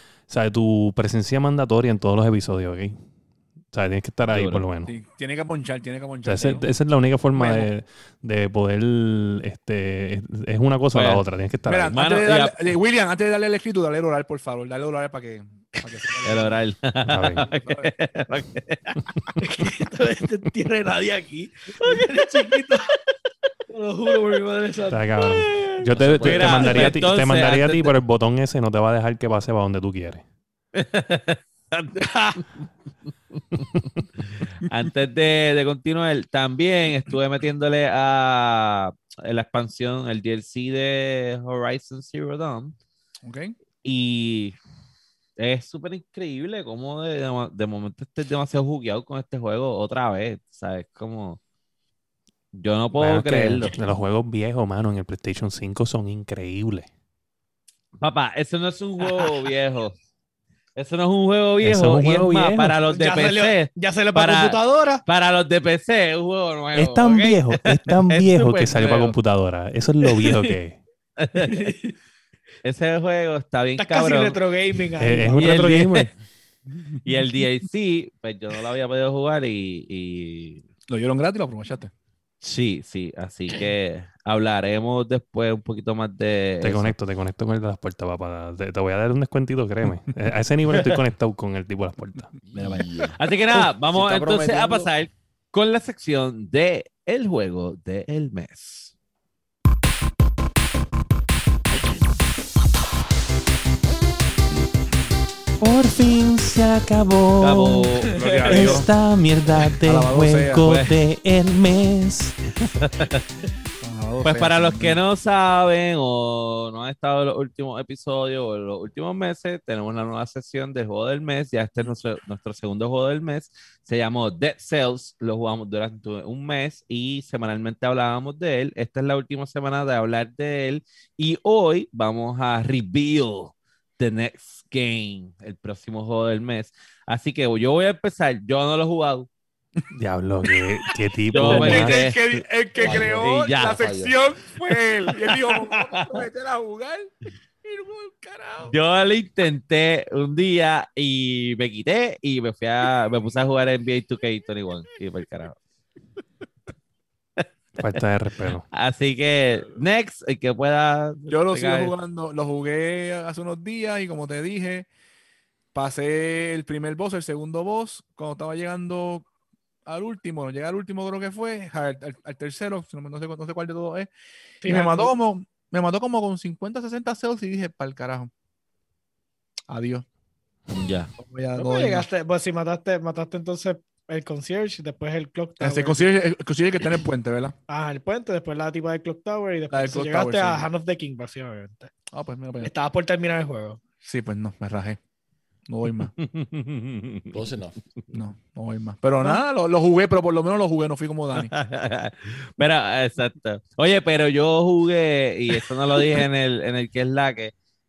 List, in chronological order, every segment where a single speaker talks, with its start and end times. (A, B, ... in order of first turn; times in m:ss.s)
0:00.3-0:02.9 A
0:03.7-0:04.9 A
0:04.3-0:04.6 B
0:04.8-0:06.7 C
0:06.2-0:12.0 A
0:07.3-0:07.7 C
0:10.9-0:11.2 B
0:11.7-0:16.6 C
0:11.9-0:12.6 B
0:16.2-0:19.0 B
0:17.1-0:17.5 A
0:17.5-0:17.9 C
0:19.4-0:23.1 D
0:23.7-0:25.7 D
0:24.9-0:30.2 A
0:25.9-0:26.9 E
0:26.2-0:27.9 B
0:30.7-0:32.5 B
0:34.4-0:42.7 B
0:43.2-0:43.6 C
0:43.8-0:44.5 B
0:45.4-0:51.4 B
0:52.5-0:53.7 B
0:53.0-0:56.9 A
0:58.0-1:00.0 B
0:59.0-0:59.3 D
1:00.8-1:09.2 B
1:01.6-1:02.8 A
1:02.9-1:05.0 D
1:06.7-1:10.8 A
1:10.2-1:10.5 D
1:11.2-1:11.7 B
1:11.4-1:11.9 D
1:12.6-1:14.4 B
1:13.8-1:15.4 D
1:15.0-1:16.1 A
1:15.3-1:16.1 B
1:17.0-1:20.6 B
1:20.9-1:21.9 C
1:22.4-1:26.9 B
1:26.6-1:32.4 A
1:32.5-1:34.9 E
1:32.6-1:38.9 B
1:45.6-1:47.9 A
1:47.4-1:48.8 B
1:48.1-1:48.9 C
1:48.2-1:48.5 D
1:48.4-1:52.5 A
1:49.8-1:50.7 C
1:50.6-1:50.9 B
1:52.7-1:53.2 B
1:53.8-1:55.0 C
1:54.2-2:19.3 B
2:19.9-2:22.1 A
2:21.3-2:22.2 B
2:21.3-2:27.1 C
2:22.8-2:24.1 E
2:22.9-2:23.8 B
2:25.5-2:26.2 B
2:27.6-2:28.7 C
2:28.6-2:35.6 B
2:37.4-2:38.0 B
2:37.8-2:38.6 A
2:38.7-2:41.9 B
2:41.3-2:44.9 C
2:45.7-2:49.3 C
2:49.8-2:58.3 C
2:54.6-2:55.1 D
2:59.7-3:00.0 C
3:00.7-3:01.1 B
3:01.2-3:02.0 C
3:01.6-3:06.1 D
3:05.6-3:07.5 C
3:07.7-3:11.9 D
3:09.7-3:10.7 C
3:12.1-3:12.7 C
3:12.6-3:13.8 D
3:14.0-3:15.0 C
3:15.7-3:16.1 C
3:16.2-3:17.4 B
3:17.3-3:17.8 E
3:18.1-3:21.5 C
3:21.4-3:27.5 B